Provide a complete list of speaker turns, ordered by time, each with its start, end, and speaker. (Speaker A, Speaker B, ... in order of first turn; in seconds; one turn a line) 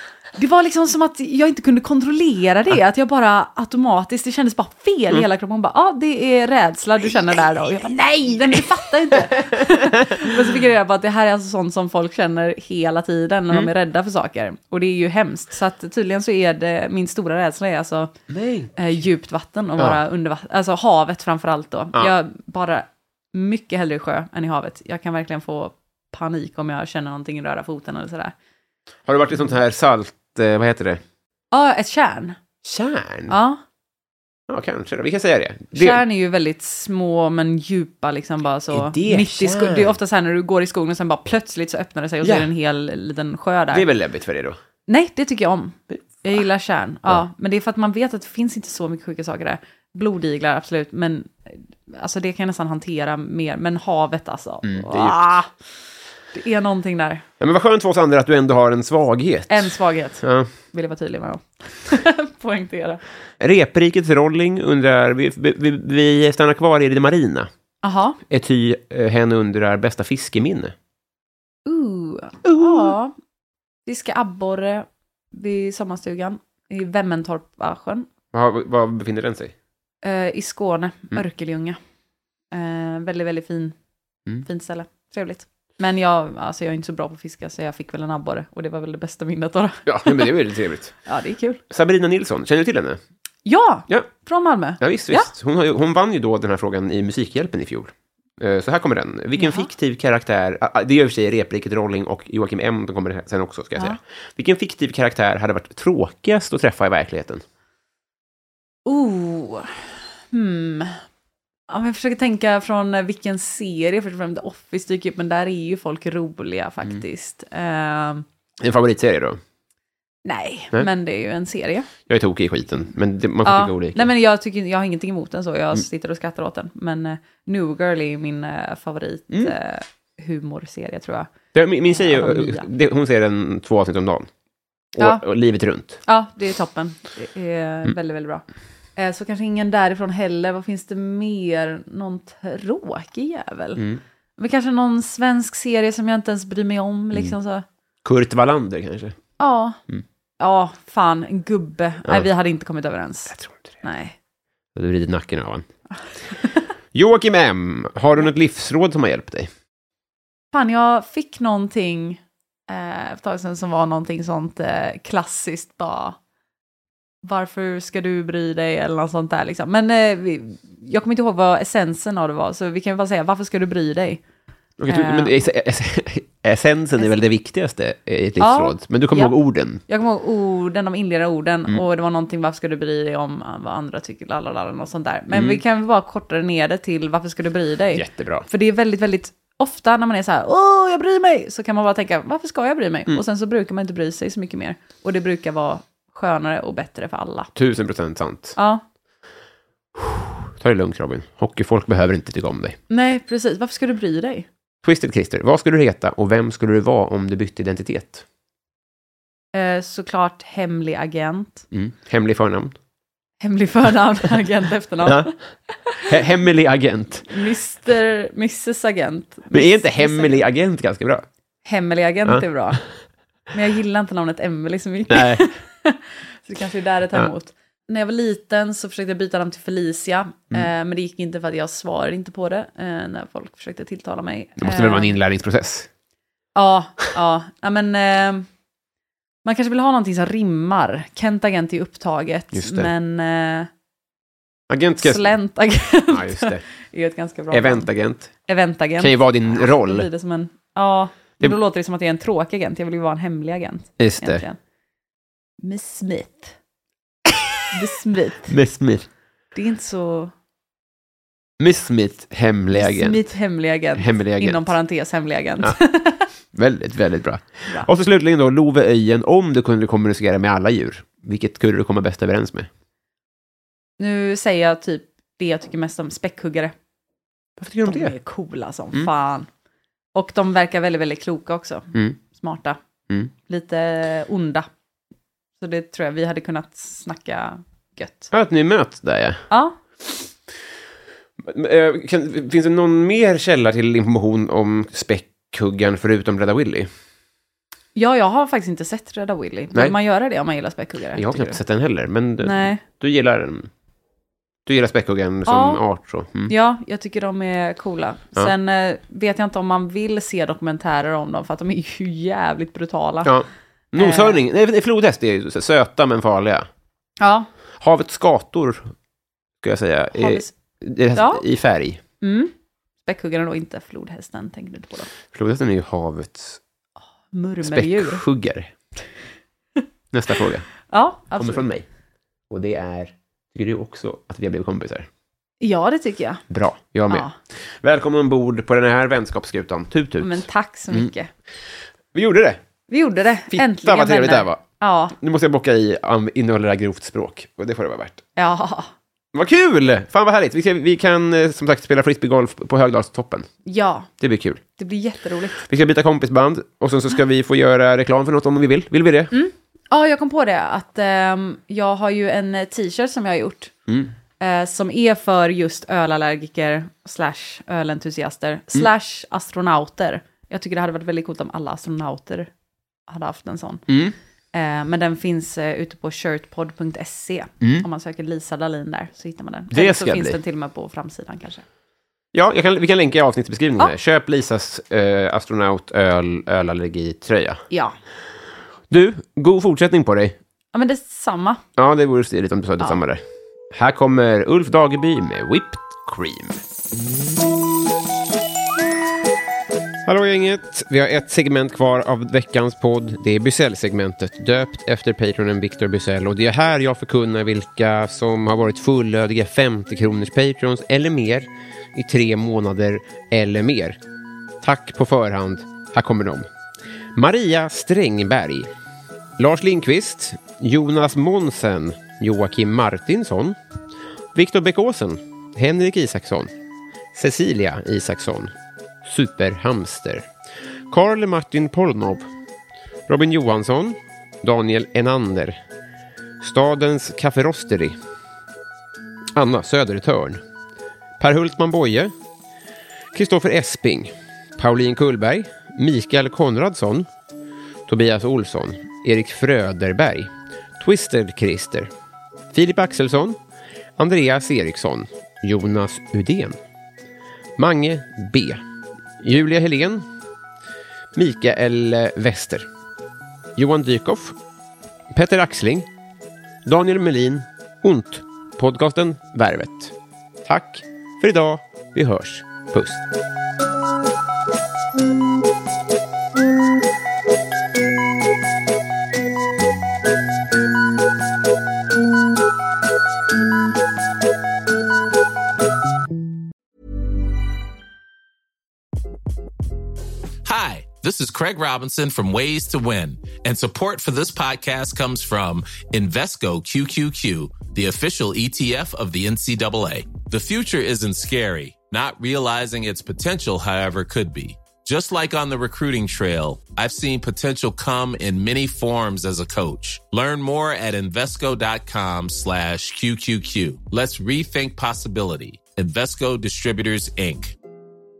Speaker A: 0.3-18.1
Speaker B: 9.5-10.3
Speaker B: 18.3-18.7
Speaker A: 18.7-28.3
Speaker B: 29.1-31.0
Speaker A: 31.5-32.4
Speaker B: 32.6-33.3
Speaker A: 33.3-33.6
Speaker B: 34.5-36.0
Speaker A: 35.7-43.9
Speaker B: 38.7-40.0
Speaker B: 42.2-42.5
Speaker B: 43.7-44.6
Speaker A: 44.9-55.5
Speaker B: 54.6-55.3
Speaker A: 56.3-57.2
Speaker B: 57.4-60.5
Speaker A: 59.5-63.0
Speaker B: 63.4-67.5
Speaker A: 67.8-68.2
Speaker B: 68.3-70.7
Speaker A: 71.7-73.1
Speaker B: 72.4-72.9
Speaker A: 73.8-78.1
Speaker B: 78.3-79.5
Speaker A: 80.0-81.8
Speaker A: 82.5-83.7
Speaker A: 84.4-90.3
Speaker B: 89.8-91.0
Speaker A: 91.0-91.6
Speaker B: 91.7-93.0
Speaker A: 93.4-95.3
Speaker B: 94.8-107.4
Speaker A: 99.4-99.7
Speaker A: 108.8-111.0
Speaker A: 111.7-118.2
Speaker B: 118.6-119.4
Speaker A: 120.2-121.9
Speaker B: 122.1-124.1
Speaker A: 123.4-131.3
Speaker B: 131.5-134.3
Speaker A: 131.9-132.7
Speaker B: 134.9-136.0
Speaker A: 135.0-135.2
Speaker A: 136.0-138.4
Speaker A: 139.0-143.8
Speaker B: 143.8-144.0
Speaker A: 144.4-147.6
Speaker B: 148.0-149.2
Speaker A: 149.4-149.8
Speaker A: 150.4-154.2
Speaker B: 153.3-153.7
Speaker B: 154.7-155.7
Speaker B: 156.9-159.5
Speaker A: 160.5-166.2
Speaker A: 167.2-174.2
Speaker B: 174.8-179.8
Speaker A: 174.9-175.4
Speaker A: 178.4-197.5
Speaker B: 185.3-185.6
Speaker B: 187.9-188.5
Speaker B: 197.5-198.6
Speaker A: 198.6-198.8
Speaker B: 199.9-202.8
Speaker A: 202.9-204.5
Speaker B: 204.8-208.2
Speaker A: 209.5-211.6
Speaker B: 211.7-212.7
Speaker A: 213.4-216.1
Speaker B: 215.0-215.3
Speaker B: 216.0-217.3
Speaker A: 217.3-220.4
Speaker B: 219.5-221.2
Speaker A: 221.6-222.8
Speaker A: 223.5-235.2
Speaker B: 225.1-225.4
Speaker B: 234.6-235.9
Speaker A: 236.5-238.5
Speaker A: 239.4-243.7
Speaker B: 242.5-242.9
Speaker B: 244.7-245.3
Speaker A: 245.0-254.6
Speaker B: 246.1-246.6
Speaker B: 247.5-248.3
Speaker B: 249.0-250.1
Speaker B: 254.0-254.4
Speaker A: 255.6-256.6
Speaker A: 257.7-258.5
Speaker B: 258.5-259.1
Speaker A: 259.5-260.3
Speaker B: 261.6-263.2
Speaker A: 262.7-266.3
Speaker B: 263.9-264.7
Speaker B: 266.5-272.7
Speaker A: 274.0-276.7
Speaker B: 277.6-278.1
Speaker A: 277.8-279.5
Speaker A: 280.1-282.8
Speaker A: 283.4-284.7
Speaker A: 285.6-288.3
Speaker B: 288.3-289.5
Speaker A: 289.5-289.8
Speaker B: 291.4-296.9
Speaker A: 297.9-301.6
Speaker B: 301.1-303.7
Speaker A: 302.4-302.8
Speaker B: 304.6-306.5
Speaker A: 305.4-305.8
Speaker A: 306.5-313.3
Speaker B: 313.2-316.7
Speaker A: 314.0-314.4
Speaker A: 317.2-317.5
Speaker B: 317.8-318.9
Speaker B: 319.6-322.0
Speaker A: 320.1-320.5
Speaker A: 321.1-321.4
Speaker A: 322.2-322.5
Speaker A: 323.0-325.1
Speaker B: 325.3-326.6
Speaker A: 327.3-328.2
Speaker B: 327.6-328.7
Speaker B: 330.1-330.7
Speaker A: 330.9-331.6
Speaker B: 331.4-331.9
Speaker B: 332.5-335.1
Speaker A: 335.6-336.4
Speaker B: 336.5-337.3
Speaker A: 337.1-337.3
Speaker B: 337.8-341.1
Speaker A: 340.2-341.3
Speaker B: 342.1-342.6
Speaker A: 342.9-345.1
Speaker B: 343.5-344.6
Speaker B: 345.1-348.2
Speaker A: 348.4-348.9
Speaker B: 349.3-353.5
Speaker A: 353.6-354.1
Speaker B: 354.2-354.6
Speaker A: 354.8-355.6
Speaker B: 355.6-359.3
Speaker A: 359.3-363.7
Speaker A: 364.4-372.5
Speaker A: 373.1-373.9
Speaker B: 373.9-374.1
Speaker A: 374.5-381.6
Speaker B: 379.7-380.4
Speaker B: 382.3-387.6
Speaker A: 387.7-388.0
Speaker B: 388.9-390.4
Speaker A: 390.7-391.6
Speaker B: 391.8-396.6
Speaker B: 400.0-414.0
Speaker B: 414.6-416.5
Speaker B: 417.1-418.7
Speaker B: 419.4-423.6
Speaker B: 424.3-426.5
Speaker B: 427.1-428.5
Speaker B: 429.0-430.3
Speaker B: 430.9-432.3
Speaker B: 433.1-435.6
Speaker B: 436.4-438.0
Speaker B: 439.3-440.4
Speaker B: 441.2-442.1
Speaker B: 443.1-447.1
Speaker B: 447.9-451.9
Speaker B: 452.5-453.4
Speaker B: 454.0-456.6
Speaker B: 457.6-458.6
Speaker B: 459.2-460.1
Speaker B: 461.1-462.7
Speaker B: 463.6-464.4
Speaker B: 465.1-465.9
Speaker B: 466.6-469.9
Speaker B: 470.4-473.0
Speaker C: 490.4-517.5